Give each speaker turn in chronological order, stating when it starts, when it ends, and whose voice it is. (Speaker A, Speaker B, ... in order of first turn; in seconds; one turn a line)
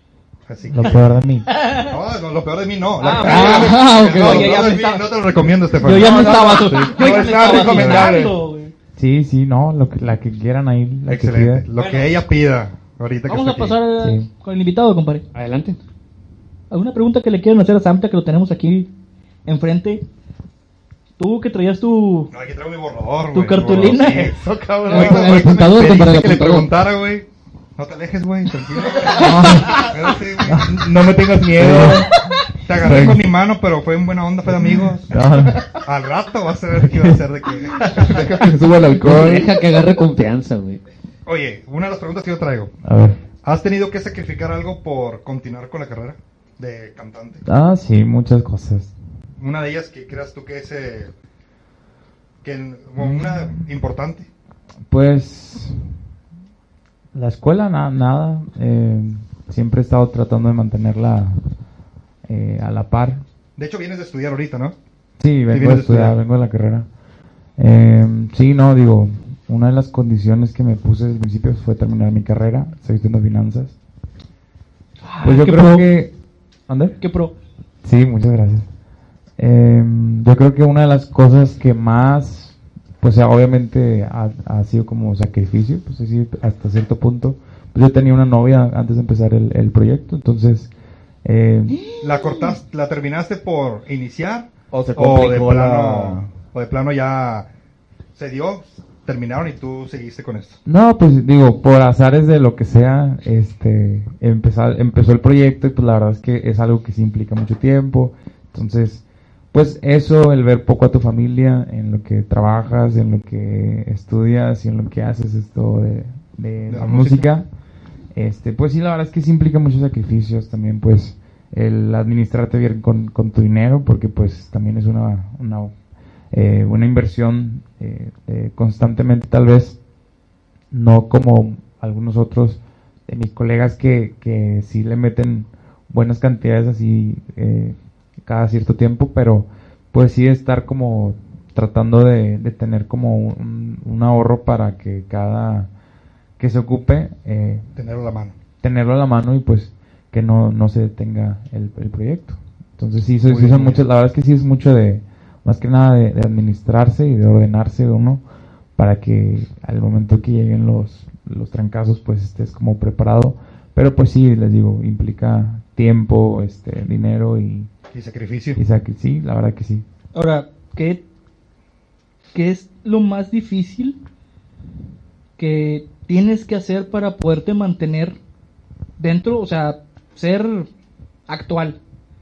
Speaker A: 0.5-1.1
Speaker B: 0.7-1.5
Speaker C: 1.5-1.9
Speaker A: 1.7-8.1
Speaker C: 3.0-5.2
Speaker D: 3.1-4.5
Speaker E: 3.1-4.7
Speaker C: 5.8-8.7
Speaker D: 5.8-8.4
Speaker B: 9.0-11.7
Speaker A: 11.1-13.8
Speaker C: 11.8-12.1
Speaker C: 13.3-15.2
Speaker B: 14.0-14.3
Speaker E: 15.3-15.8
Speaker C: 16.7-18.9
Speaker C: 19.5-20.0
Speaker C: 21.2-22.3
Speaker A: 22.3-30.7
Speaker C: 23.3-24.3
Speaker D: 23.8-25.8
Speaker E: 24.8-26.7
Speaker D: 28.9-32.2
Speaker B: 29.2-29.8
Speaker C: 29.4-29.9
Speaker B: 30.5-30.8
Speaker B: 31.5-32.2
Speaker A: 32.6-35.1
Speaker B: 32.7-33.3
Speaker B: 34.5-35.6
Speaker A: 35.8-38.5
Speaker B: 36.8-37.2
Speaker D: 37.9-39.6
Speaker E: 39.0-40.8
Speaker A: 41.3-42.7
Speaker B: 42.8-43.2
Speaker A: 43.4-47.4
Speaker B: 47.5-48.9
Speaker A: 49.4-51.1
Speaker A: 52.4-54.3
Speaker B: 53.0-53.6
Speaker B: 54.9-55.8
Speaker B: 57.1-61.4
Speaker B: 62.3-63.2
Speaker A: 63.6-64.8
Speaker B: 65.2-66.9
Speaker A: 65.5-66.2
Speaker B: 67.6-73.8
Speaker C: 75.0-75.9
Speaker B: 75.2-76.1
Speaker B: 76.7-77.0
Speaker C: 77.0-77.3
Speaker B: 77.8-78.7
Speaker B: 79.4-90.7
Speaker B: 91.2-91.8
Speaker C: 91.7-92.5
Speaker A: 92.0-97.5
Speaker D: 94.7-96.3
Speaker A: 98.2-100.6
Speaker B: 100.7-117.5
Speaker A: 116.7-117.2
Speaker B: 118.1-125.7
Speaker B: 126.3-129.8
Speaker B: 130.7-145.7
Speaker B: 146.4-147.7
Speaker A: 147.8-148.3
Speaker B: 148.6-158.2
Speaker A: 153.2-153.8
Speaker B: 158.8-167.7
Speaker A: 167.9-168.6
Speaker B: 168.6-169.8
Speaker C: 170.2-171.0
Speaker C: 172.3-174.0
Speaker C: 175.4-178.2
Speaker C: 179.0-180.7
Speaker C: 181.3-181.8